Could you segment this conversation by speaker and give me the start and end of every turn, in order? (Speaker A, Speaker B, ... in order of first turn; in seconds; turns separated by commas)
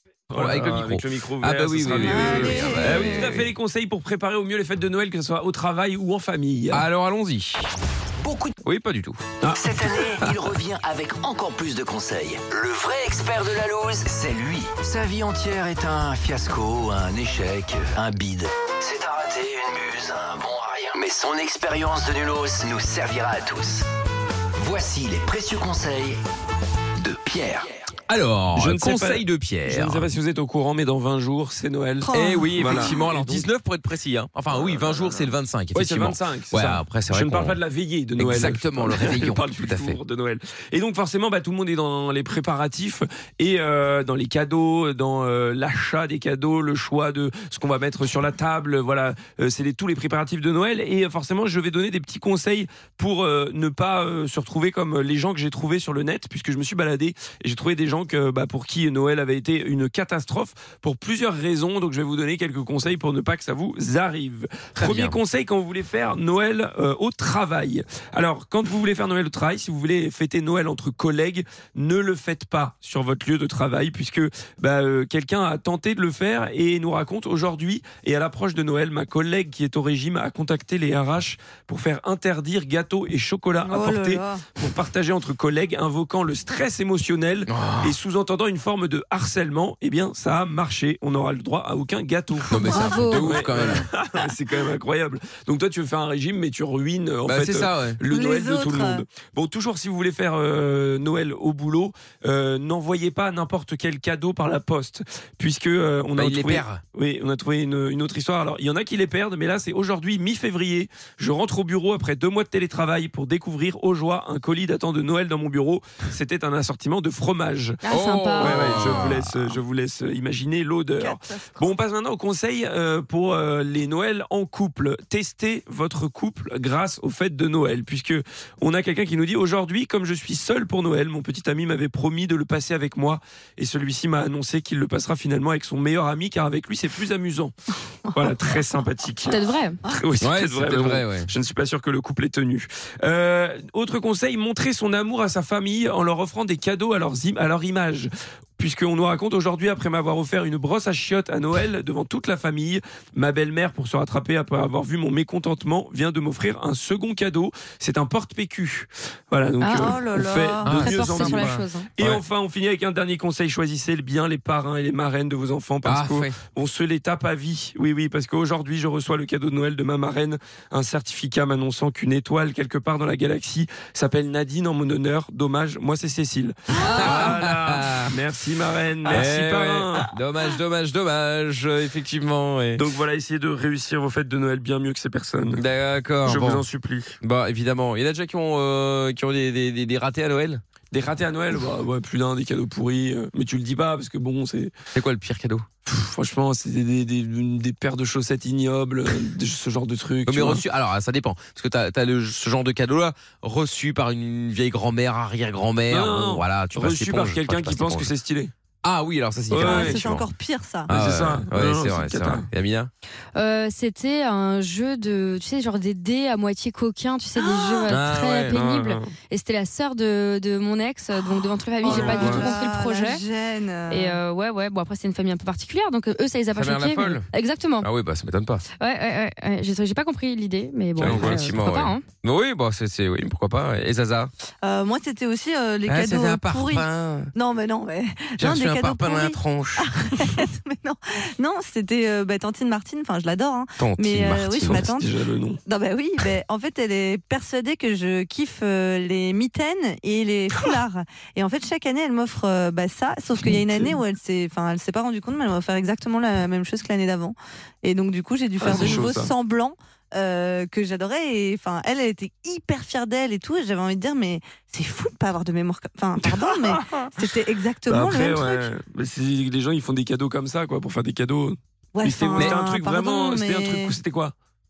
Speaker A: 0.3-6.8, Speaker B: 0.3-3.5, Speaker C: 1.9-3.3, Speaker B: 6.7-7.7, Speaker D: 8.2-8.6, Speaker B: 8.6-9.2, Speaker A: 9.4-9.7, Speaker D: 9.5-23.9, Speaker D: 24.5-26.2, Speaker D: 27.0-27.9, Speaker B: 28.1-30.1, Speaker A: 28.5-33.5, Speaker C: 32.0-33.0, Speaker B: 32.1-37.6, Speaker A: 34.5-117.8, Speaker B: 38.2-40.0, Speaker B: 64.8-65.2, Speaker C: 83.6-84.5, Speaker B: 87.5-88.0, Speaker B: 92.5-93.9, Speaker C: 92.5-93.4, Speaker B: 97.2-98.0, Speaker C: 98.0-99.0, Speaker B: 106.2-106.8, Speaker E: 117.8-119.1, Speaker B: 117.9-119.3, Speaker A: 118.3-137.5, Speaker C: 120.9-121.7, Speaker A: 138.1-180.1, Speaker E: 139.2-139.8, Speaker B: 140.2-141.3, Speaker E: 159.6-160.0, Speaker C: 159.7-160.8, Speaker B: 160.6-162.2, Speaker E: 160.8-161.9, Speaker B: 165.8-166.4, Speaker B: 176.7-178.1, Speaker B: 179.1-182.8, Speaker A: 182.8-185.6, Speaker B: 185.5-186.6, Speaker A: 186.2-187.2, Speaker B: 187.2-190.6, Speaker A: 190.9-194.8, Speaker B: 194.9-195.7, Speaker A: 195.8-200.6, Speaker B: 200.3-208.1, Speaker A: 205.9-208.5, Speaker B: 208.8-210.3, Speaker A: 209.5-210.0, Speaker C: 209.5-210.9, Speaker B: 210.9-212.9, Speaker A: 210.9-212.5, Speaker E: 213.3-223.2, Speaker C: 217.3-217.9, Speaker B: 217.9-218.6, Speaker A: 218.5-219.1, Speaker A: 221.8-222.5, Speaker C: 221.8-224.2, Speaker B: 221.9-222.3, Speaker E: 223.9-227.9, Speaker B: 226.5-227.3, Speaker B: 227.8-228.6, Speaker E: 228.8-232.1, Speaker B: 231.0-234.3, Speaker A: 231.0-231.5, Speaker C: 234.6-268.7, Speaker B: 235.9-237.3, Speaker B: 238.4-239.9, Speaker B: 243.8-244.9, Speaker A: 244.6-245.6, Speaker A: 253.6-253.9, Speaker A: 258.6-259.3, Speaker A: 266.2-267.3, Speaker A: 267.8-274.3, Speaker C: 271.9-274.0